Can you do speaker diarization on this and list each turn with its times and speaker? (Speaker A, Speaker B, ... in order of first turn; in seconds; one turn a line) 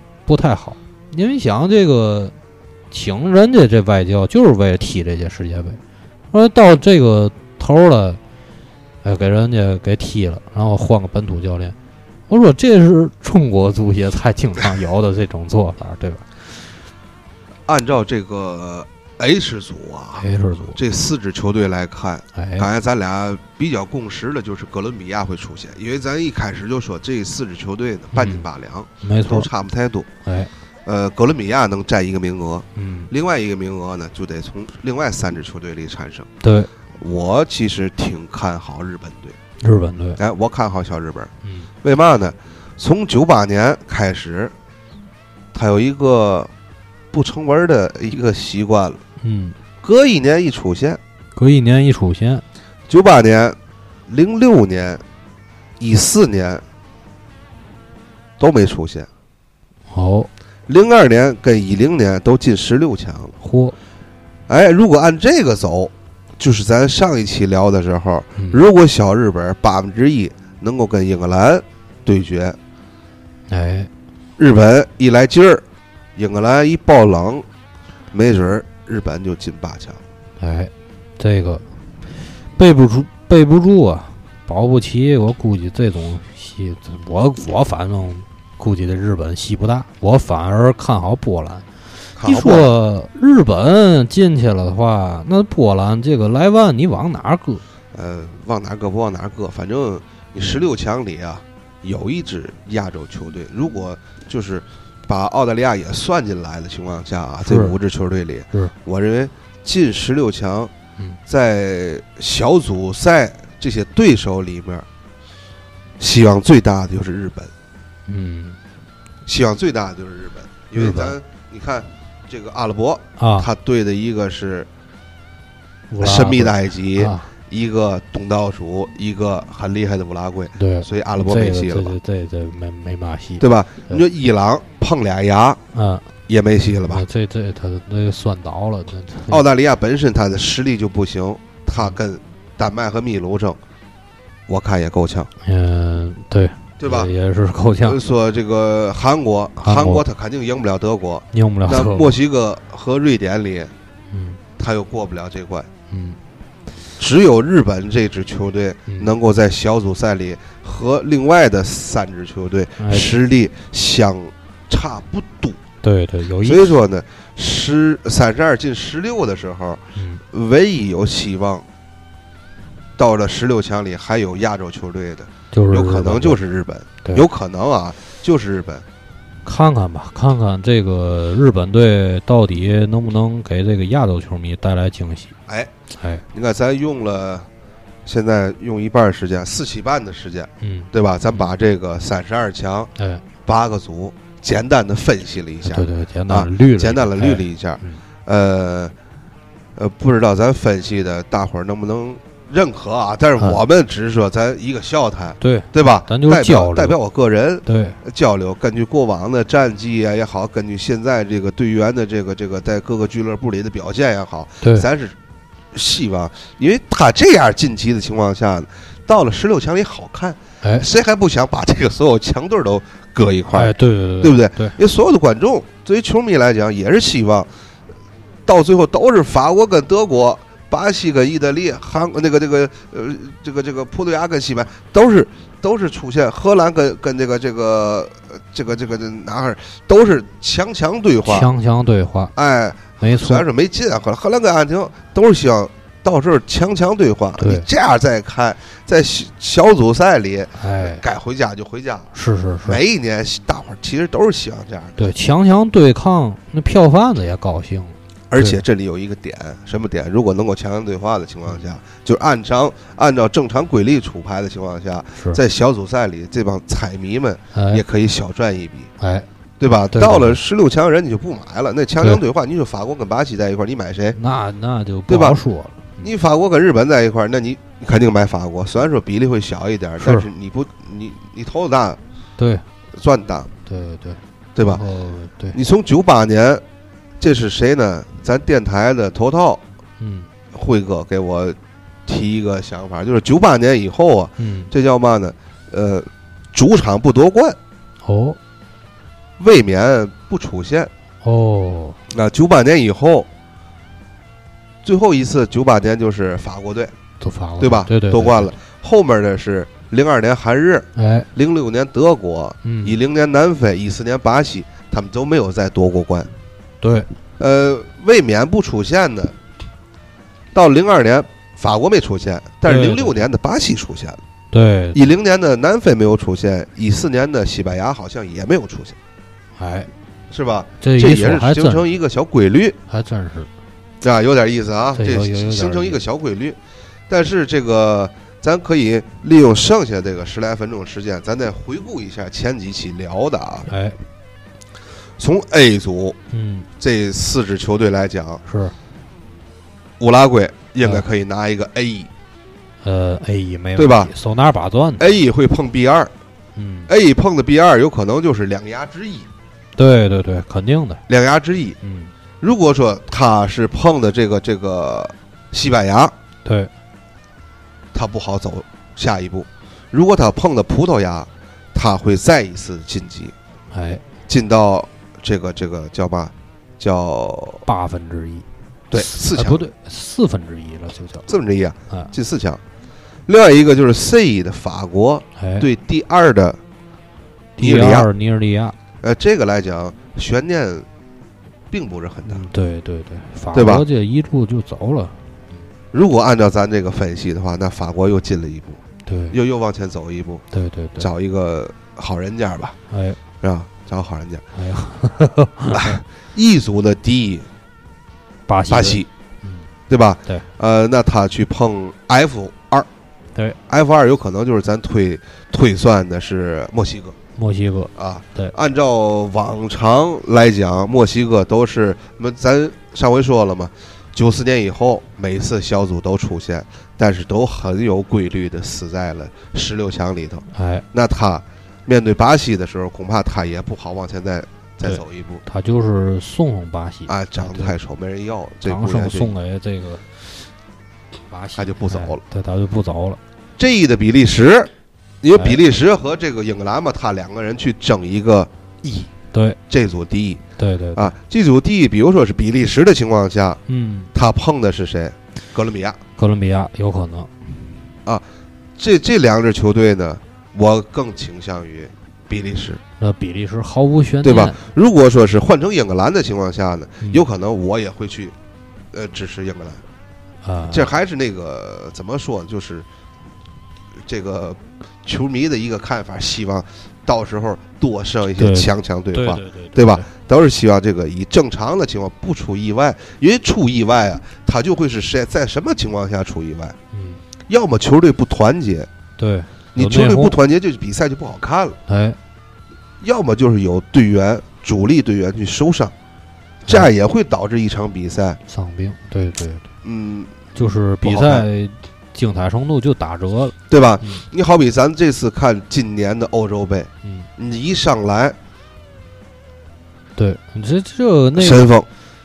Speaker A: 0.3-2.3
Speaker A: 2.9-5.8
Speaker A: 6.3-8.2
Speaker A: 9.0-11.8
Speaker A: 12.3-16.3
Speaker B: 17.7-30.1
Speaker A: 20.2-20.8
Speaker A: 22.4-22.7
Speaker A: 28.1-28.5
Speaker A: 29.0-29.5
Speaker A: 30.2-30.5
Speaker B: 30.9-36.3
Speaker A: 32.8-33.1
Speaker A: 36.4-36.7
Speaker B: 37.0-39.4
Speaker A: 39.6-40.2
Speaker B: 40.2-41.3
Speaker A: 41.4-41.7
Speaker B: 41.8-44.5
Speaker B: 45.5-46.5
Speaker B: 47.1-49.0
Speaker A: 49.2-49.6
Speaker B: 49.8-51.0
Speaker A: 51.4-52.4
Speaker B: 52.9-55.0
Speaker B: 55.8-56.6
Speaker B: 58.4-59.1
Speaker A: 59.9-60.3
Speaker B: 60.7-63.3
Speaker A: 63.4-63.8
Speaker B: 64.5-72.6
Speaker A: 68.4-68.6
Speaker A: 73.5-73.9
Speaker B: 74.4-75.6
Speaker B: 76.2-77.5
Speaker B: 78.1-80.0
Speaker A: 80.4-81.6
Speaker A: 82.5-91.7
Speaker B: 92.2-92.7
Speaker A: 92.2-97.6
Speaker B: 97.9-110.7
Speaker A: 107.4-107.8
Speaker B: 111.3-114.9
Speaker B: 116.0-117.5
Speaker A: 118.1-118.6
Speaker B: 119.3-124.7
Speaker A: 120.8-121.2
Speaker A: 123.2-123.5
Speaker A: 125.9-127.3
Speaker B: 126.0-131.9
Speaker A: 130.6-134.0
Speaker B: 133.4-135.6
Speaker A: 135.7-136.1
Speaker B: 136.3-137.1
Speaker A: 136.8-139.4
Speaker B: 139.3-143.6
Speaker B: 144.5-145.3
Speaker A: 145.4-148.0
Speaker B: 146.8-147.1
Speaker B: 147.8-153.7
Speaker A: 149.6-150.1
Speaker A: 151.3-152.2
Speaker A: 154.1-154.4
Speaker B: 154.6-155.7
Speaker A: 155.9-156.2
Speaker B: 157.0-165.6
Speaker A: 158.9-159.1
Speaker A: 162.8-163.1
Speaker A: 165.8-166.7
Speaker B: 166.4-171.7
Speaker A: 169.9-170.2
Speaker B: 173.0-178.8
Speaker A: 175.5-176.4
Speaker A: 179.4-185.4
Speaker B: 185.5-185.7
Speaker A: 186.0-186.2
Speaker B: 186.3-187.5
Speaker B: 188.1-192.9
Speaker A: 190.6-191.5
Speaker A: 193.0-193.2
Speaker B: 193.4-198.9
Speaker A: 195.6-198.0
Speaker B: 199.8-215.2
Speaker A: 205.4-207.0
Speaker A: 207.7-208.0
Speaker B: 215.7-227.5
Speaker A: 220.6-220.9
Speaker A: 223.5-224.8
Speaker B: 228.5-241.5
Speaker A: 241.2-242.3
Speaker B: 242.3-252.1
Speaker A: 243.0-243.4
Speaker A: 247.4-247.7
Speaker A: 250.6-251.1
Speaker A: 252.1-252.8
Speaker B: 252.7-255.1
Speaker A: 255.0-258.6
Speaker B: 258.3-268.9
Speaker A: 267.5-267.8
Speaker A: 269.0-269.3
Speaker B: 269.6-274.2
Speaker A: 269.9-270.4
Speaker A: 274.1-276.1
Speaker B: 275.1-275.4
Speaker B: 276.0-282.0
Speaker A: 280.0-280.3
Speaker A: 282.4-282.6
Speaker B: 282.9-283.5
Speaker A: 283.7-285.6
Speaker B: 284.6-284.8
Speaker B: 285.5-286.6
Speaker B: 287.2-289.6
Speaker A: 290.0-290.3
Speaker B: 290.5-297.6
Speaker A: 294.4-294.7
Speaker A: 298.0-298.4
Speaker B: 299.4-300.9
Speaker A: 301.2-302.0
Speaker B: 302.1-303.3
Speaker B: 304.8-306.9
Speaker A: 307.2-308.6
Speaker B: 307.6-316.3
Speaker A: 311.0-311.3
Speaker A: 312.6-313.0
Speaker A: 316.8-317.1
Speaker B: 317.4-319.4
Speaker B: 320.5-324.2
Speaker A: 322.7-323.2
Speaker A: 324.5-325.0
Speaker B: 324.9-329.0
Speaker A: 329.6-329.9
Speaker B: 330.3-332.8
Speaker A: 330.8-331.9
Speaker A: 332.9-333.5
Speaker B: 334.0-336.6
Speaker A: 334.9-336.0
Speaker B: 337.1-343.7
Speaker A: 343.7-344.0
Speaker B: 345.2-346.2
Speaker A: 346.3-346.7
Speaker B: 346.8-348.4
Speaker A: 348.5-348.7
Speaker B: 350.0-352.1
Speaker A: 352.8-355.2
Speaker B: 353.8-354.1
Speaker B: 355.0-356.1
Speaker A: 356.6-356.9
Speaker B: 356.9-359.3
Speaker A: 359.8-361.0
Speaker B: 361.1-361.8
Speaker A: 361.8-362.1
Speaker B: 362.4-366.1
Speaker A: 366.4-366.7
Speaker B: 367.9-373.3
Speaker A: 373.7-374.0
Speaker B: 374.3-377.6
Speaker A: 377.7-378.5
Speaker B: 378.9-379.6
Speaker A: 379.0-381.3
Speaker B: 381.3-382.6
Speaker B: 383.3-386.6
Speaker A: 385.4-385.7
Speaker A: 387.6-388.8
Speaker B: 387.6-388.1
Speaker B: 389.0-390.9
Speaker B: 391.7-392.4
Speaker A: 392.3-395.2
Speaker B: 393.5-393.9
Speaker B: 395.9-400.4
Speaker A: 399.1-399.4
Speaker A: 400.5-401.1
Speaker B: 401.0-402.8
Speaker A: 402.9-403.2
Speaker B: 403.4-404.4
Speaker A: 404.6-406.0
Speaker B: 405.7-407.5
Speaker A: 408.5-409.7
Speaker B: 408.7-409.1
Speaker B: 409.9-412.9
Speaker B: 413.7-417.1
Speaker A: 417.4-418.6
Speaker B: 418.0-435.4
Speaker A: 430.5-430.9
Speaker A: 434.8-437.8
Speaker B: 437.1-439.3
Speaker A: 438.6-440.5
Speaker A: 441.3-443.2
Speaker B: 441.6-442.2
Speaker B: 443.6-444.7
Speaker B: 445.2-449.1
Speaker A: 449.3-449.6
Speaker B: 449.7-450.4
Speaker A: 450.6-451.1
Speaker B: 450.9-453.6
Speaker A: 453.7-454.1
Speaker B: 454.1-456.0
Speaker A: 456.2-457.3
Speaker B: 458.8-462.8
Speaker A: 463.0-464.6
Speaker B: 464.2-468.4
Speaker B: 468.9-469.8
Speaker A: 470.4-470.9
Speaker B: 470.7-472.9
Speaker B: 474.0-486.8
Speaker A: 478.4-480.1
Speaker A: 486.9-487.2
Speaker B: 487.5-488.9
Speaker A: 489.2-490.4
Speaker B: 489.8-491.8
Speaker A: 491.9-492.2
Speaker B: 493.0-495.9
Speaker B: 496.6-498.4
Speaker A: 498.5-499.7
Speaker B: 499.8-501.5
Speaker A: 500.6-504.2
Speaker B: 503.7-508.4
Speaker A: 510.2-511.7
Speaker B: 511.4-511.9